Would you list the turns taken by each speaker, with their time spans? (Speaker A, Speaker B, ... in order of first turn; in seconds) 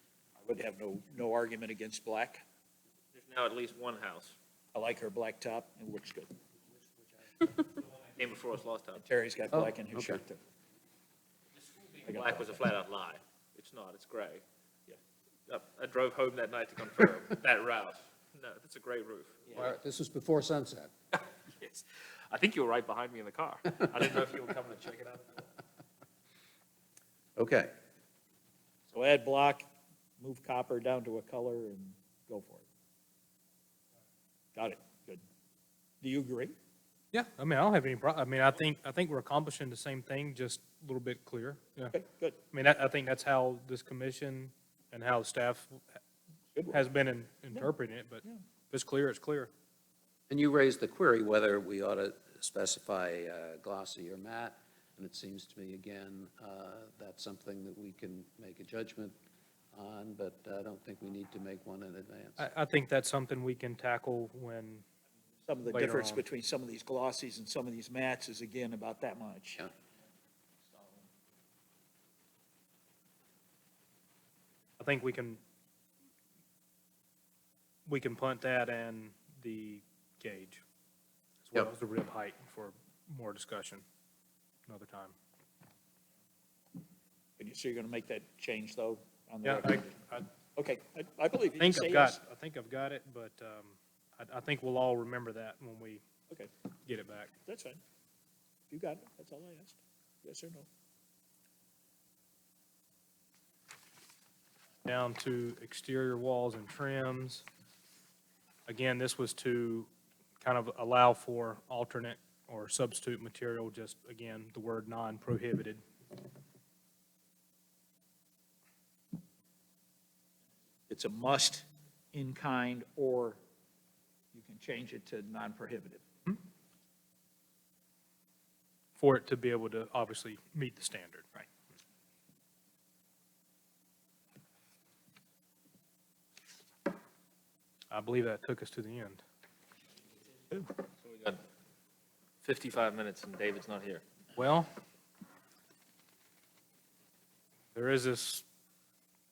Speaker A: 0.4-2.4, 4.7-6.3, 8.9-10.4, 12.0-12.6, 28.9-29.7, 30.2-32.7, 34.5-35.2, 36.0-36.5, 41.9-42.4, 46.6-46.8, 65.5-69.7, 87.4-92.2, 97.5-97.8, 98.7-100.7, 120.9-123.4, 124.3-126.0
Speaker B: 3.1-4.4, 7.7-9.0, 11.7-14.4, 15.5-19.6, 21.6-25.5, 141.0-141.4, 142.4-144.0
Speaker C: 9.5-10.2, 19.5-20.9, 27.4-27.7, 50.3-59.2, 59.7-62.5
Speaker D: 37.1-42.0, 42.5-45.8, 46.7-49.5, 62.4-64.8, 65.7-66.2, 74.8-75.4, 77.9-80.6, 81.4-83.8, 84.7-85.2, 89.4-90.3, 91.6-96.0, 96.9-97.3, 104.8-107.5, 108.7-109.9, 110.4-115.8, 129.0-131.3, 137.9-139.2, 144.4-144.7, 147.8-148.4